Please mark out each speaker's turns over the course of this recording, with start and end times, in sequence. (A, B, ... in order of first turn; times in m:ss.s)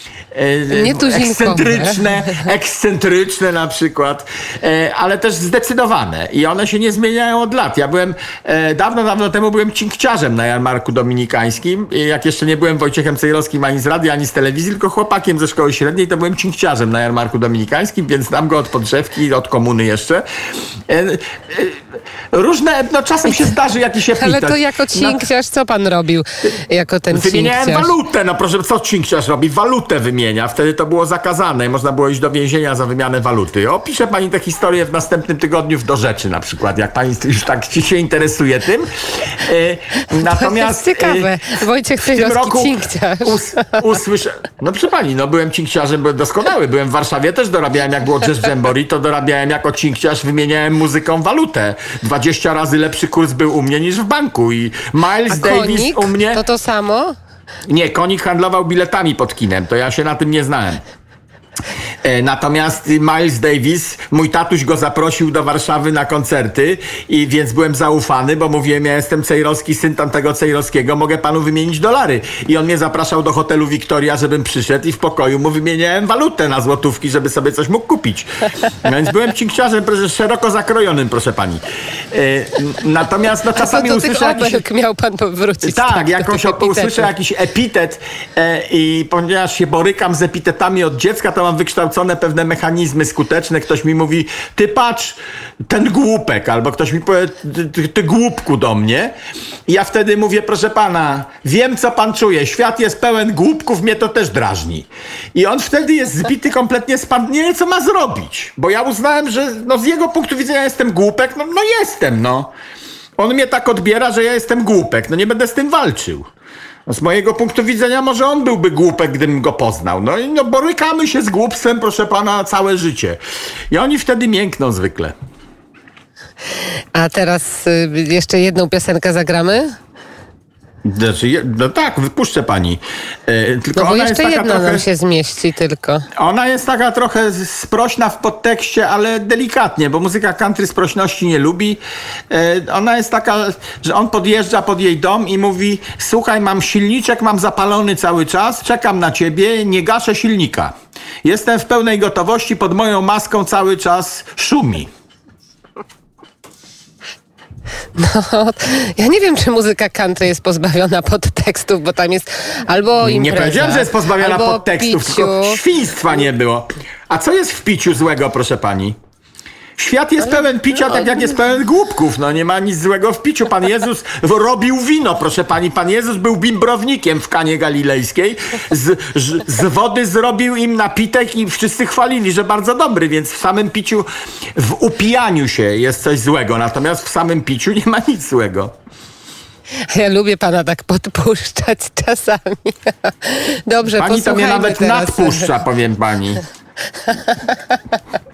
0:00.3-0:20.2 A
0:00.7-0:02.4 B
0:20.9-0:21.8 A
0:22.3-0:25.2 A
0:24.1-0:27.9 B
0:27.1-0:41.3 A
0:40.2-0:43.8 B
0:42.0-0:56.4 A
0:55.3-0:57.2 B
0:57.7-1:00.8 A
1:02.0-1:24.6 A
1:23.6-1:27.1 B
1:25.6-1:39.1 A
1:39.7-1:52.5 A
1:53.2-1:56.3 A
1:56.8-2:03.2 A
2:03.7-2:05.1 A
2:06.9-2:09.8 B
2:10.8-2:14.8 A
2:13.8-2:16.1 B
2:16.2-2:34.9 A
2:38.0-2:45.6 B
2:43.0-2:49.0 A
2:49.8-3:08.7 A
3:09.9-3:15.5 B
3:13.9-3:16.4 A
3:17.1-3:17.6 B